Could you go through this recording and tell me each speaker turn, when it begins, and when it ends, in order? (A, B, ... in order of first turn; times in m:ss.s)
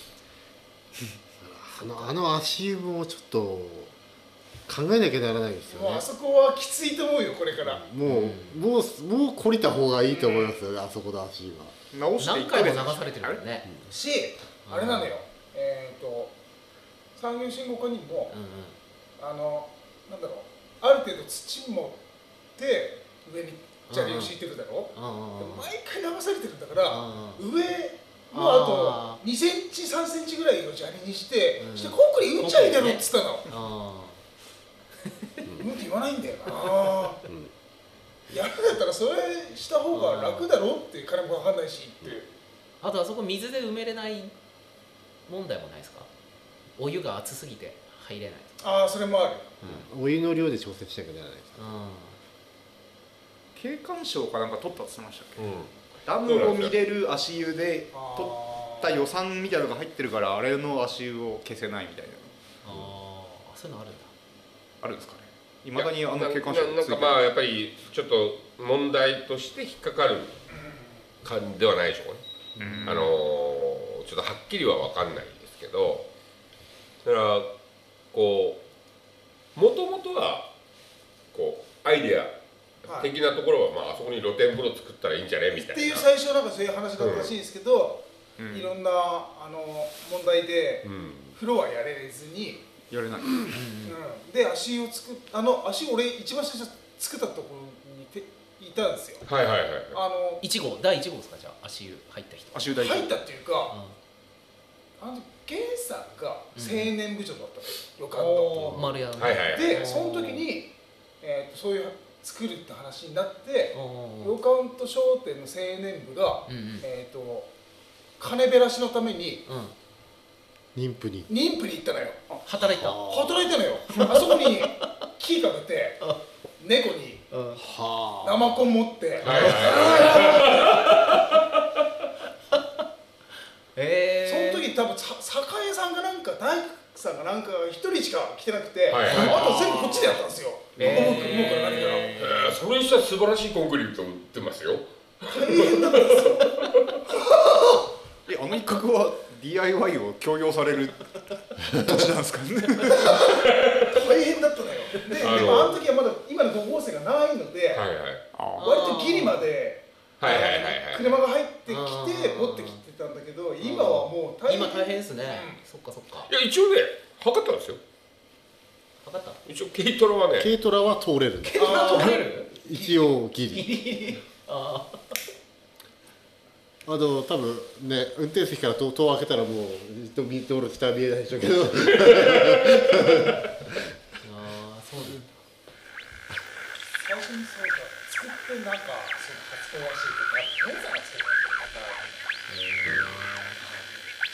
0:01.4-0:03.9 A
0:04.7-0:06.1 A
0:05.7-0:07.8 B
0:07.6-0:11.8 A
0:08.1-0:08.6 C
0:10.1-0:10.6 B
0:11.9-0:13.4 D
0:12.2-0:13.7 C
0:13.9-0:16.3 B
0:14.7-0:15.1 C
0:17.2-0:18.4 B
0:18.3-0:18.8 C
0:19.2-0:22.0 B
0:22.6-0:33.5 B
0:23.9-0:24.3 C
0:24.9-0:25.7 C
0:26.9-0:27.4 C
0:28.3-0:29.2 C
0:31.6-0:34.2 C
0:35.2-0:35.5 C
0:35.6-0:37.2 B
0:38.3-0:42.3 B
0:39.9-0:40.5 C
0:42.8-0:44.3 C
0:45.3-0:46.1 C
0:46.8-0:48.6 C
0:48.6-0:49.6 B
0:49.6-0:51.6 A
0:51.6-0:52.2 C
0:53.6-0:55.5 D
0:55.4-0:56.7 E
0:56.1-1:02.4 D
0:57.9-0:59.1 B
1:02.6-1:04.1 C
1:04.8-1:07.2 D
1:05.8-1:10.6 E
1:10.5-1:10.9 B
1:11.2-1:12.2 E
1:12.6-1:13.1 C
1:12.6-1:13.1 D
1:12.9-1:16.1 E
1:17.0-1:17.5 E
1:18.1-1:18.6 E
1:19.6-1:20.5 E
1:21.3-1:22.3 E
1:22.8-1:26.1 E
1:22.9-1:23.1 B
1:25.5-1:32.7 B
1:27.0-1:27.4 E
1:28.4-1:28.7 D
1:30.8-1:31.4 E
1:32.9-1:33.6 D
1:33.5-1:34.0 C
1:33.8-1:39.3 B
1:39.2-1:40.0 E
1:39.9-1:40.4 B
1:40.4-1:42.7 C
1:42.5-1:43.1 D
1:42.8-1:43.8 B
1:43.7-1:44.0 C
1:45.0-1:57.5 B
1:46.6-1:46.9 C
1:48.1-1:50.5 C
1:49.2-1:49.9 E
1:53.7-1:54.4 C
1:56.5-1:56.9 C
1:58.2-1:59.4 B
1:59.5-1:59.8 C
2:00.8-2:01.3 A
2:01.3-2:02.4 B
2:02.4-2:03.0 C
2:02.7-2:03.5 A
2:03.0-2:06.0 B
2:04.1-2:04.6 C
2:06.6-2:07.3 B
2:07.3-2:07.6 C
2:07.6-2:08.6 A
2:08.2-2:10.8 B
2:09.2-2:11.6 E
2:09.2-2:11.1 C
2:12.5-2:12.8 C
2:13.8-2:14.7 C
2:14.3-2:22.3 B
2:18.9-2:20.2 E
2:19.1-2:19.4 C
2:20.8-2:26.9 E
2:20.8-2:22.4 C
2:25.3-2:27.9 B
2:28.3-2:33.4 D
2:33.4-2:34.1 E
2:33.8-2:37.8 B
2:35.2-2:35.8 E
2:37.7-2:38.2 E
2:38.3-2:38.7 D
2:38.6-2:39.5 C
2:38.6-2:45.6 B
2:40.2-2:41.1 E
2:41.7-2:42.8 C
2:43.6-2:46.3 C
2:46.3-2:47.8 E
2:49.0-2:49.4 C
2:49.5-2:50.5 E
2:50.4-2:53.7 A
2:51.4-2:55.1 C
2:51.6-2:52.3 B
2:56.9-3:03.7 A
3:04.2-3:05.4 C
3:07.0-3:12.3 B
3:12.5-3:13.6 C